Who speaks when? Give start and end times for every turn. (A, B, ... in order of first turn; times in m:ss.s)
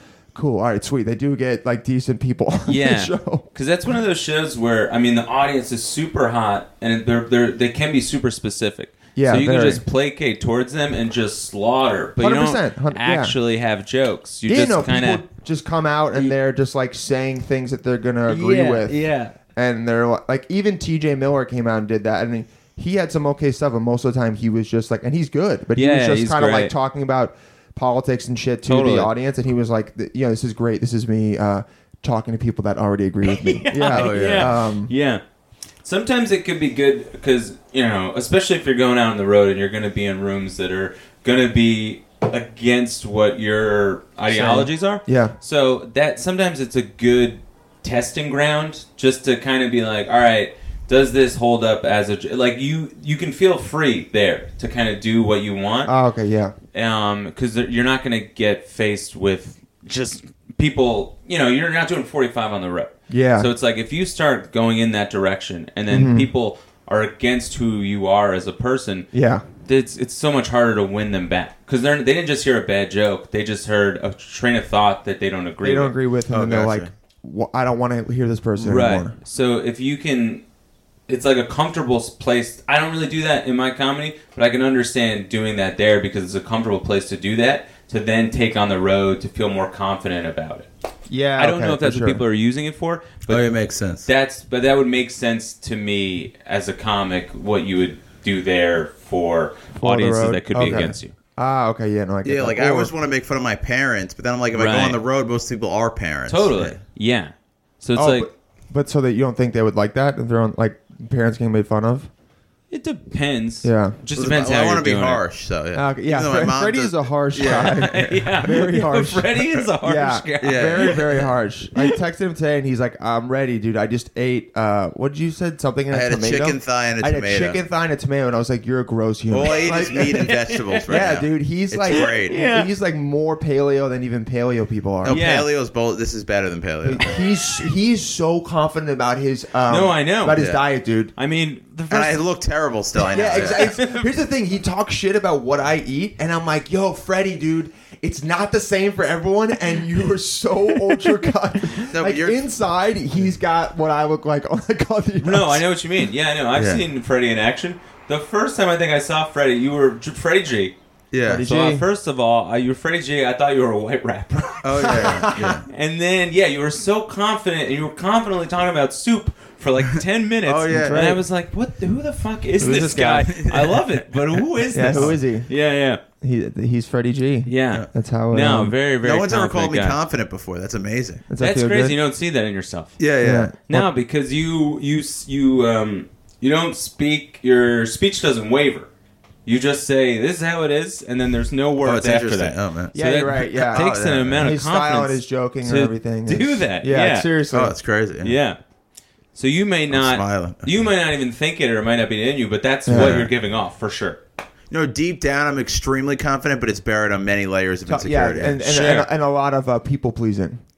0:00.3-0:03.4 A
0:02.7-0:15.2 B
0:09.2-0:09.8 A
0:12.2-0:13.3 A
0:14.4-0:19.0 A
0:18.3-0:19.3 B
0:19.5-0:34.9 A
0:25.8-0:26.7 B
0:28.7-0:29.1 B
0:33.2-0:35.2 B
0:33.9-0:34.6 C
0:35.8-0:55.9 B
0:44.3-0:45.3 A
0:55.8-0:56.5 A
0:56.7-1:09.1 B
1:03.1-1:03.5 A
1:05.9-1:06.3 A
1:09.1-1:09.4 A
1:09.6-1:15.9 B
1:15.6-1:19.1 A
1:16.3-1:16.9 C
1:18.6-1:20.4 B
1:21.1-1:30.7 B
1:31.1-1:32.2 A
1:31.4-1:33.5 B
1:33.3-1:34.1 C
1:34.0-1:41.1 B
1:39.7-1:42.9 A
1:42.2-1:46.8 C
1:44.5-1:45.0 B
1:46.3-1:48.3 B
1:48.0-1:52.1 A
1:52.7-1:55.2 B
1:53.6-1:54.0 A
1:54.2-1:58.2 C
1:55.7-2:10.3 A
1:57.4-2:01.2 B
2:00.4-2:01.3 C
2:05.9-2:07.6 C
2:09.3-2:12.4 C
2:10.2-2:11.0 B
2:10.9-2:15.2 A
2:11.9-2:12.7 B
2:15.0-2:17.0 C
2:15.1-2:15.5 B
2:16.8-2:21.1 A
2:19.7-2:20.4 B
2:20.4-2:20.6 C
2:21.2-2:22.2 B
2:21.9-2:23.7 C
2:23.1-2:35.6 A
2:23.2-2:24.0 B
2:30.9-2:31.3 B
2:31.9-2:32.4 C
2:35.2-2:40.7 B
2:36.5-2:36.8 C
2:41.1-2:41.4 C
2:41.2-2:41.8 A
2:41.4-2:56.0 B
2:44.6-2:45.6 C
2:44.9-2:45.6 A
2:49.9-2:51.1 C
2:50.7-2:51.2 A
2:52.6-2:53.3 A
2:52.6-2:55.1 C
2:54.7-2:55.5 A
2:56.2-2:58.7 A
2:57.4-3:00.0 B
2:59.0-3:01.2 C
3:01.3-3:02.0 A
3:01.4-3:03.0 B
3:03.0-3:03.5 C
3:03.2-3:03.9 A
3:03.7-3:08.9 B
3:09.4-3:17.3 B
3:11.8-3:14.5 C
3:12.9-3:17.7 A
3:17.5-3:18.4 C
3:18.2-3:18.6 B
3:19.3-3:24.2 B
3:19.9-3:20.8 C
3:22.8-3:23.3 A
3:22.9-3:23.3 C
3:24.7-3:29.0 C
3:27.9-3:30.6 A
3:28.7-3:29.1 B